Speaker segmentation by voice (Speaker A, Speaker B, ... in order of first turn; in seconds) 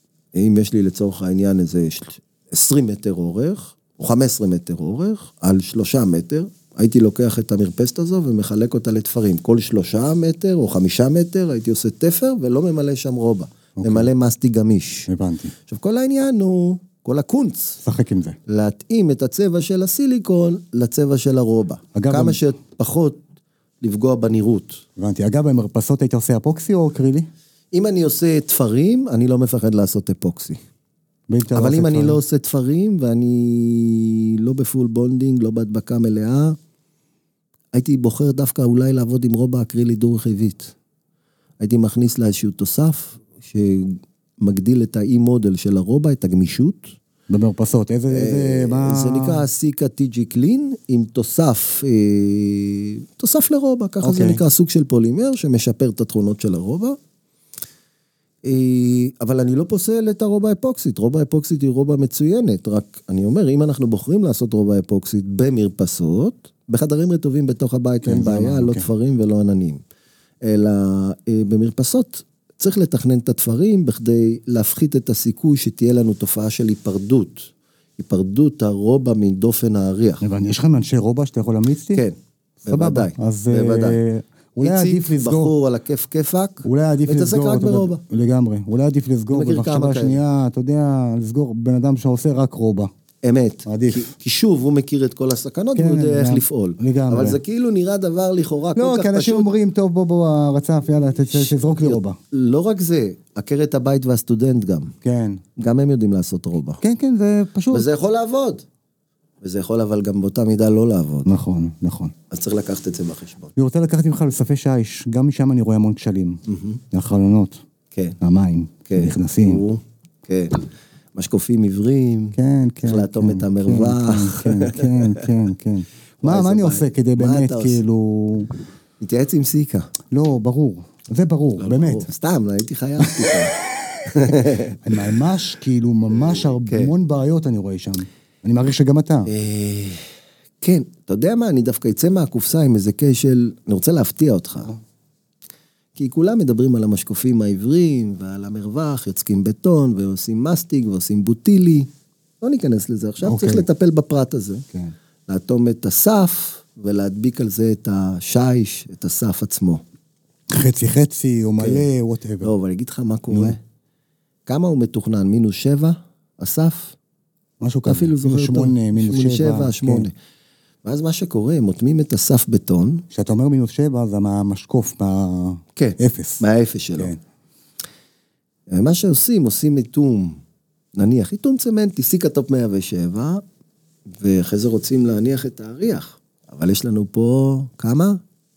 Speaker A: 0.3-15.1, 15.7-17.8, 18.5-23.2, 23.8-24.8, 27.7-30.6, 31.5-36.6, 37.7-40.7, 41.6-46.9, 48.1-57.0, 58.4-69.8, 70.4-80.2, 82.7-84.0, 84.6-88.0, 89.3-90.2, 93.2-99.5, 101.3-104.9, 105.6-106.8, 107.7-108.6, 109.4-111.3, 112.3-113.5, 116.5-116.8, 117.9-118.2, 118.9-125.2, 126.2-127.8, 129.0-129.9, 131.6-134.8, 136.1-136.9, 139.3-140.0, 140.6-144.7, 145.9-151.9, 152.4-154.7, 155.3-159.8, 161.6-161.8, 162.4-163.6, 164.5-166.9, 167.8-170.1, 170.8-173.0, 175.8-177.1, 178.7-180.4, 180.9-183.4, 184.1-188.2
Speaker B: 13.8-14.1, 15.1-15.6, 17.8-18.4, 21.9-22.4, 25.0-27.3, 31.3-32.2, 47.3-49.4, 54.0-54.4, 68.0-68.9, 80.2-82.0, 82.6-85.5, 86.6-92.9, 93.7-94.1, 95.8-97.4, 98.8-102.2, 105.0-105.4, 106.8-107.9, 111.2-112.1, 113.5-117.6, 118.2-119.6, 122.3-128.5, 130.1-132.1, 133.1-133.3, 134.2-139.3, 153.2-153.7, 160.5-162.5, 163.3-163.6, 167.6-170.1, 173.1-176.4